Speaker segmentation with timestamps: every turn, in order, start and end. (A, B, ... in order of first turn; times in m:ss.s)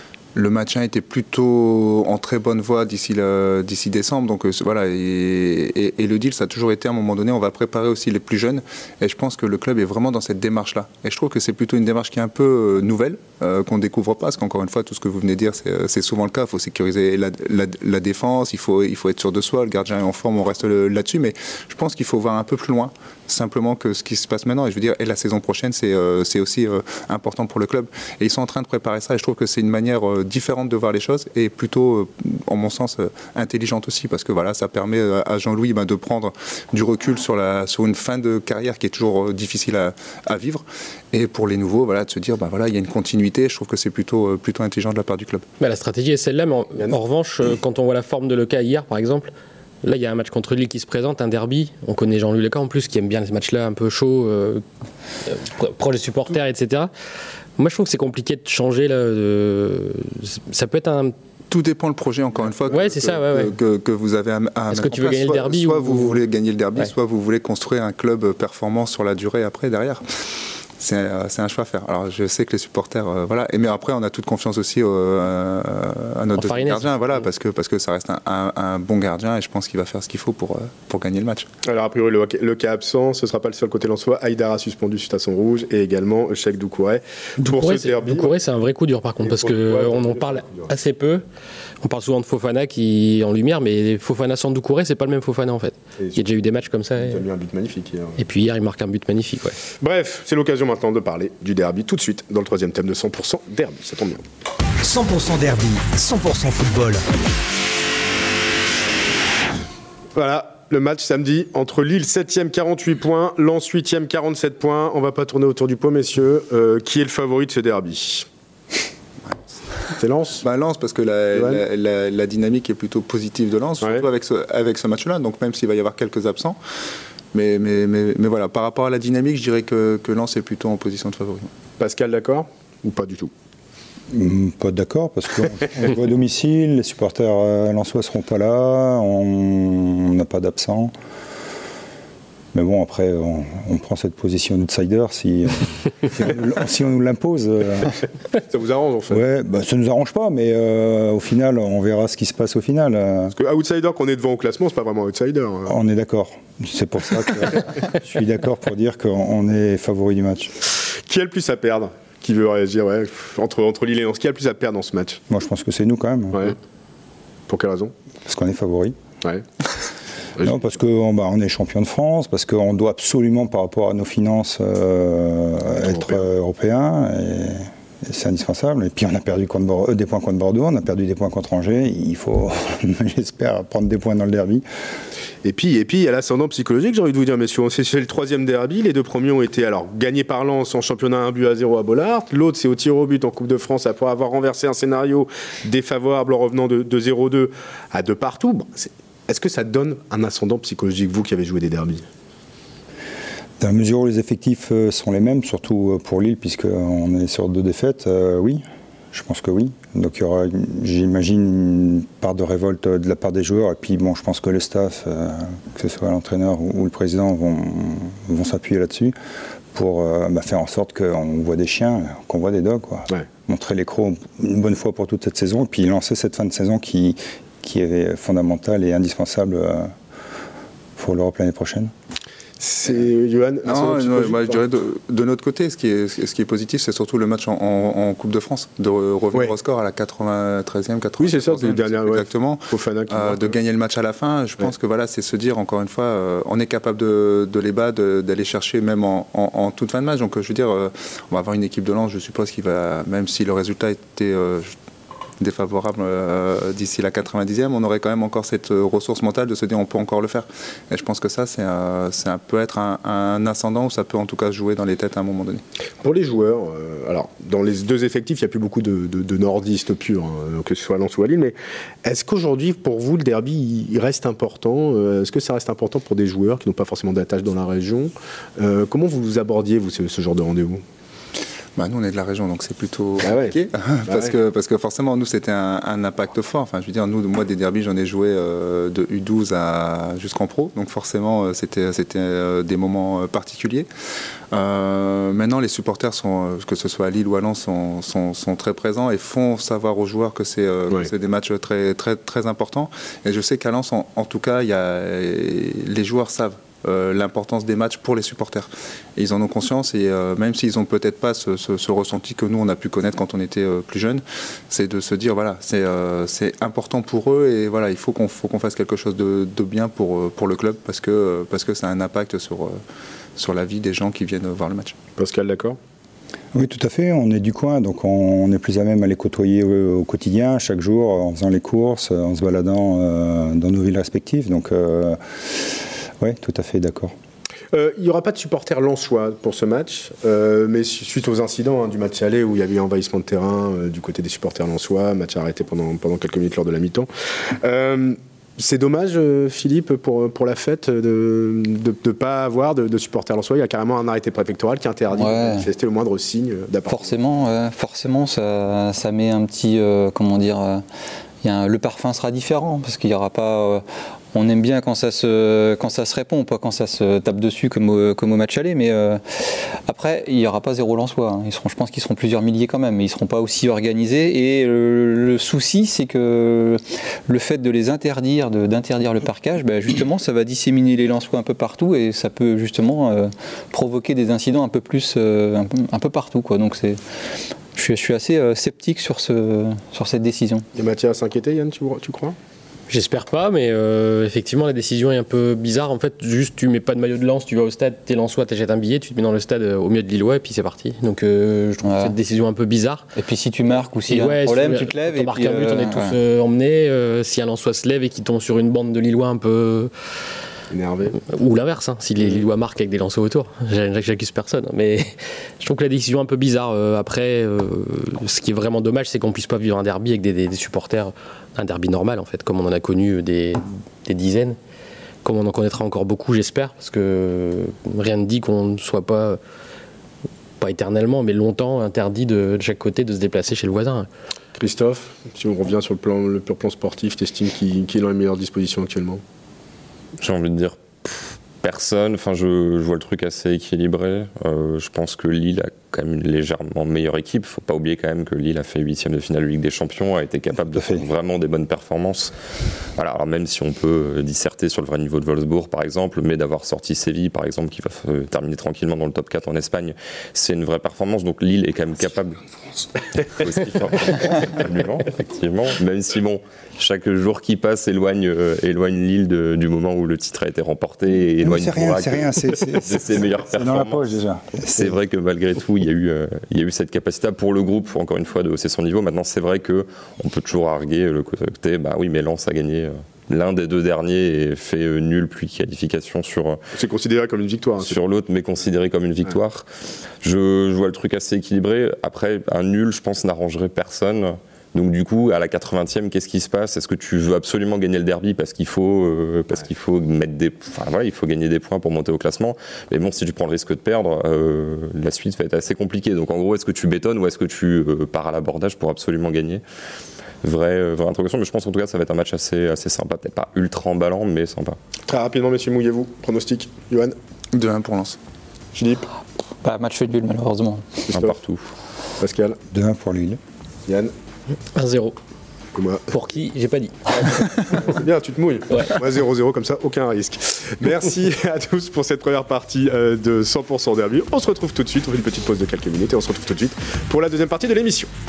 0:00.4-0:45.4 A
0:45.6-0:49.3 B
0:49.8-0:54.6 B
0:55.3-0:56.9 B
0:57.6-1:01.2 B
1:01.5-1:10.0 A
1:02.7-1:03.5 B
1:04.7-1:06.2 B
1:10.8-1:21.5 A
1:16.4-1:16.9 B
1:21.6-1:28.3 C
1:27.4-1:31.2 B
1:29.2-1:30.7 C
1:31.8-1:37.3 B
1:36.0-1:36.2 C
1:37.0-1:38.2 C
1:38.2-1:39.6 B
1:39.8-1:44.2 C
1:44.8-1:47.0 D
1:50.2-1:58.3 C
2:00.0-2:00.4 C
2:00.4-2:06.6 A
2:01.3-2:01.6 C
2:07.3-2:11.5 A
2:11.8-2:13.3 C
2:14.1-2:20.9 E
2:22.5-2:28.0 E
2:28.5-2:29.2 C
2:29.1-2:33.4 E
2:33.3-2:35.7 C
2:35.7-2:40.6 E
2:41.1-2:45.2 C
2:45.3-2:46.6 E
2:47.5-2:47.9 C
2:48.3-2:49.0 E
2:50.4-3:04.6 E
2:55.8-2:56.2 C
3:05.4-3:22.0 C
3:23.6-3:39.1 E
3:39.7-3:49.9 E
3:51.0-3:51.9 E
3:52.6-3:54.6 C
3:53.6-4:14.8 A
4:01.2-4:03.6 C
4:15.4-4:25.6 A
4:26.0-4:40.8 C
4:41.8-4:53.9 A
4:43.2-4:43.6 C
4:44.1-4:44.3 C
4:54.5-5:22.8 A
5:23.4-5:25.0 A
5:25.2-5:25.8 C
5:26.5-5:37.1 E
5:37.7-5:57.1 C
5:55.2-5:55.7 F
5:56.9-6:00.8 F
6:01.4-6:03.8 F
6:04.3-6:27.0 F
6:27.8-6:30.6 F
6:30.8-6:32.4 C
6:32.9-6:43.1 B
6:41.8-6:42.1 F
6:43.2-6:46.2 F
6:44.1-6:49.9 B
6:50.7-6:51.2 C
6:51.3-7:04.6 B
7:05.2-7:09.4 B
7:10.6-7:14.1 B
7:14.6-7:19.2 C
7:20.2-7:32.3 G
7:30.7-7:31.0 E
7:33.0-7:42.4 G
7:43.2-7:54.0 G
7:51.4-7:55.0 E
7:54.8-8:06.6 G
8:06.8-8:08.0 C
8:07.8-8:09.6 G
8:10.2-8:29.6 G
8:30.4-8:34.8 G
8:35.1-8:37.2 C
8:37.5-8:38.2 A
8:38.8-8:39.1 C
8:39.6-8:41.1 F
8:41.1-8:41.4 C
8:41.1-8:41.6 G
8:42.2-8:42.6 C
8:42.7-8:43.4 E
8:43.9-8:44.1 C
8:44.7-8:45.2 B
8:45.8-8:46.1 C
8:46.1-8:47.8 B
8:47.1-8:58.1 C